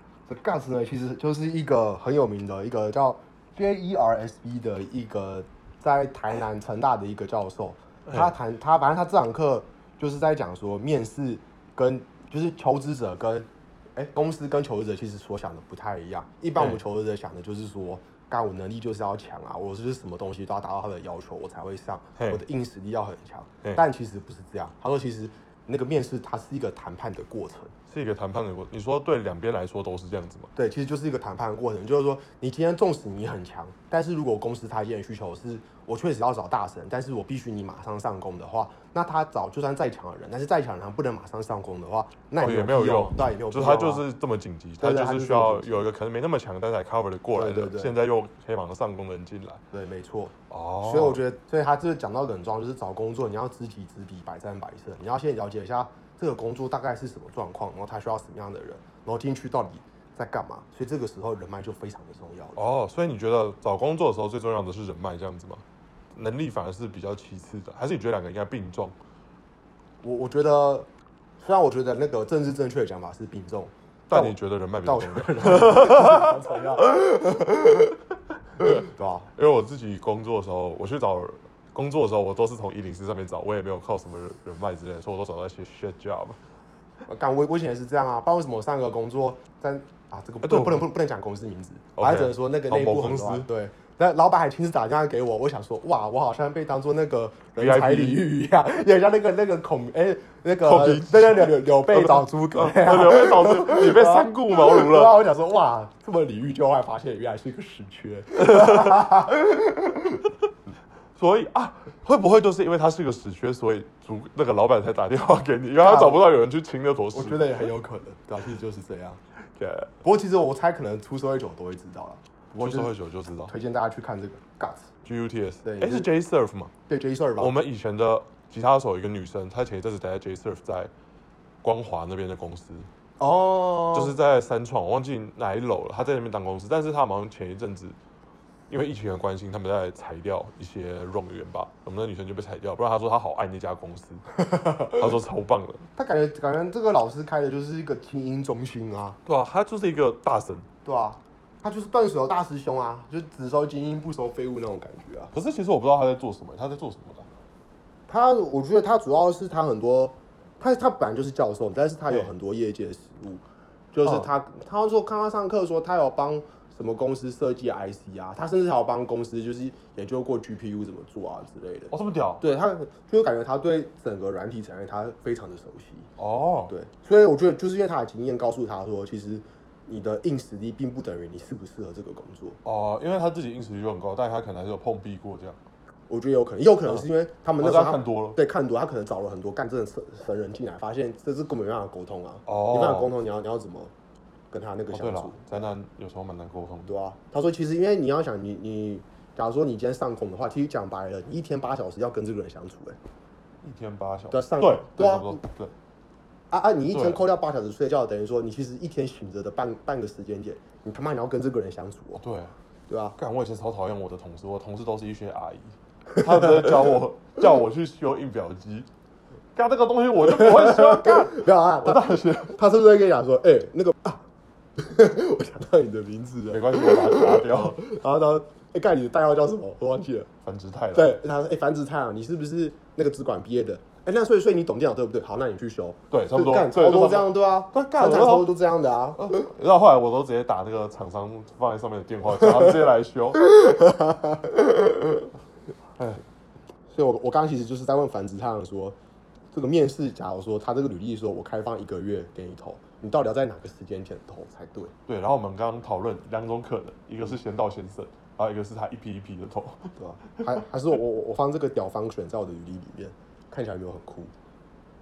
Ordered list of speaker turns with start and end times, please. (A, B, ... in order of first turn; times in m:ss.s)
0:00.3-0:27.7 A
0:22.2-0:22.4 B
0:27.9-0:30.5 B
0:30.6-0:44.0 A
0:42.4-0:49.6 B
0:44.8-0:45.9 A
0:47.4-0:47.9 A
0:49.7-1:02.6 A
0:50.5-0:51.2 B
1:02.6-1:05.6 B
1:06.1-1:09.0 B
1:10.0-1:10.9 A
1:11.4-1:18.0 A
1:14.1-1:16.4 B
1:18.6-1:19.3 A
1:18.6-1:26.4 B
1:27.1-1:50.2 A
1:30.4-1:30.9 B
1:32.0-1:33.5 B
1:37.6-1:38.2 B
1:40.6-1:45.2 B
1:48.4-1:49.2 B
1:51.2-1:57.6 B
1:55.8-1:56.2 A
1:57.1-1:59.2 A
1:59.6-1:59.9 B
2:00.0-2:02.9 A
2:02.6-2:03.5 B
2:03.5-2:04.9 A
2:05.0-2:06.7 B
2:05.6-2:06.1 A
2:06.9-2:07.5 A
2:07.4-2:10.9 B
2:11.6-2:12.9 B
2:13.2-2:14.2 A
2:13.9-2:18.0 B
2:18.7-2:24.2 B
2:24.4-2:25.0 A
2:24.8-2:25.9 B
2:26.0-2:29.2 A
2:29.2-2:30.7 B
2:30.8-2:35.3 A
2:35.3-2:37.3 B
2:38.1-2:43.4 A
2:43.9-2:56.1 A
2:51.9-2:52.4 B
2:56.2-2:56.7 B
2:56.7-3:02.6 A
3:02.6-3:05.6 B
3:06.1-3:13.9 A
3:07.6-3:08.4 B
3:12.5-3:13.1 B
3:14.5-3:15.7 A
3:14.9-3:16.9 B
3:16.9-3:23.0 A
3:23.6-3:25.7 B
3:24.3-3:25.4 A
3:26.5-3:32.2 A
3:26.9-3:27.2 B
3:32.2-3:32.6 B
3:32.9-3:33.2 A
3:33.2-3:38.9 B
3:39.6-3:42.6 B
3:40.3-3:44.2 A
3:44.8-3:50.3 A
3:46.5-3:47.8 B
3:50.4-3:51.2 B
3:50.9-3:59.5 A
3:56.1-3:58.5 B
3:59.2-4:03.5 B
4:03.4-4:05.2 A
4:06.9-4:09.0 A
4:09.5-4:14.9 A
4:15.1-4:20.5 B
4:20.0-4:24.3 A